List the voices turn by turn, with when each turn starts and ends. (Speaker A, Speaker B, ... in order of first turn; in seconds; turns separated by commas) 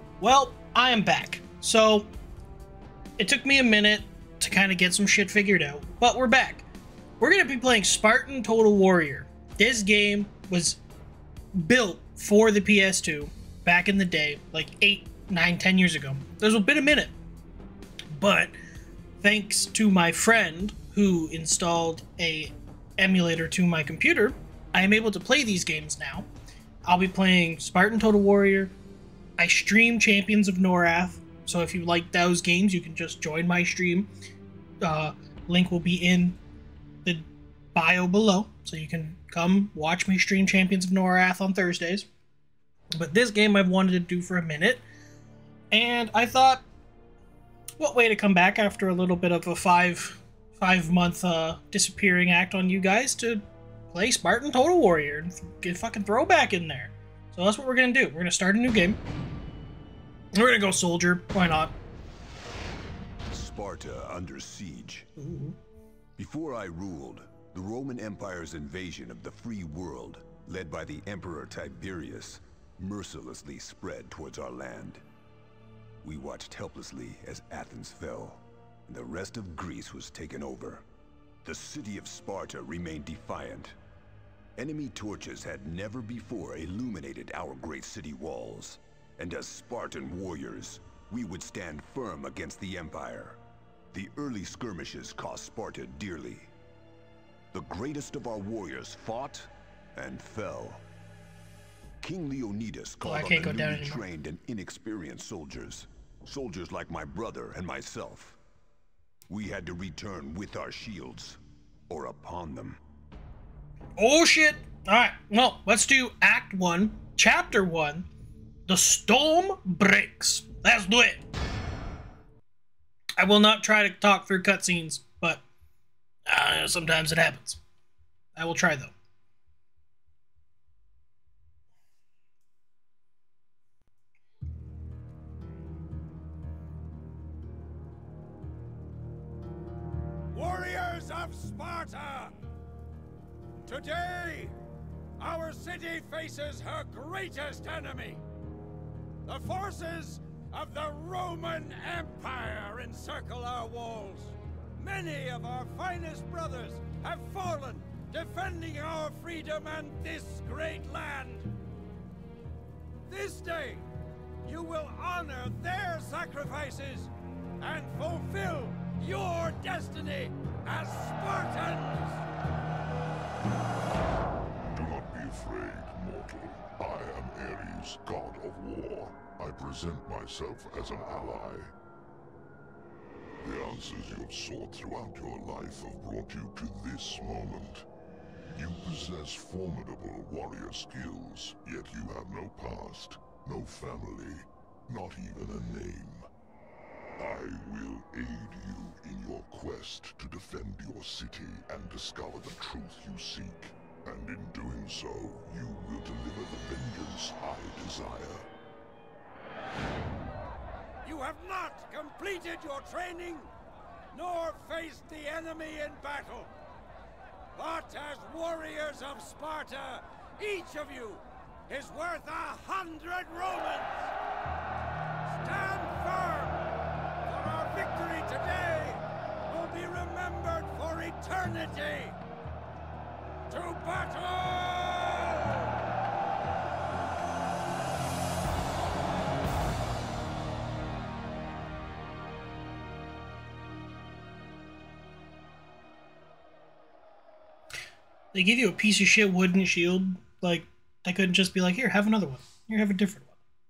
Speaker A: 0.2-2.1, Speaker A: 3.2-6.6, Speaker A: 7.2-10.8, Speaker A: 11.5-17.1, Speaker A: 18.1-18.5, Speaker A: 19.2-26.3, Speaker A: 26.9-28.7, Speaker A: 29.4-34.1, Speaker A: 34.8-36.4, Speaker A: 37.0-42.1, Speaker A: 42.9-44.8, Speaker A: 45.7-46.6, Speaker A: 47.8-59.0, Speaker A: 60.3-61.7, Speaker B: 63.3-65.1, Speaker A: 65.2-65.5, Speaker B: 66.2-75.0, Speaker B: 76.0-80.8, Speaker B: 81.4-83.8, Speaker B: 84.6-93.4, Speaker B: 93.9-96.5, Speaker B: 97.5-100.8, Speaker B: 102.0-108.4, Speaker A: 103.0-104.0, Speaker B: 109.3-112.8, Speaker A: 114.0-118.1, Speaker A: 118.7-121.2, Speaker A: 123.2-125.4, Speaker A: 126.3-127.6, Speaker A: 128.3-128.9, Speaker C: 140.3-142.4, Speaker C: 143.6-144.5, Speaker C: 145.2-148.2, Speaker C: 149.2-161.5, Speaker C: 163.1-163.9, Speaker C: 164.4-172.2, Speaker D: 174.7-181.7, Speaker D: 183.4-187.8, Speaker D: 188.5-196.3, Speaker D: 197.2-208.5, Speaker C: 211.0-213.5, Speaker C: 214.1-216.5, Speaker C: 217.5-224.1, Speaker C: 225.2-226.6, Speaker C: 227.2-232.2, Speaker C: 233.5-235.7, Speaker A: 248.3-253.3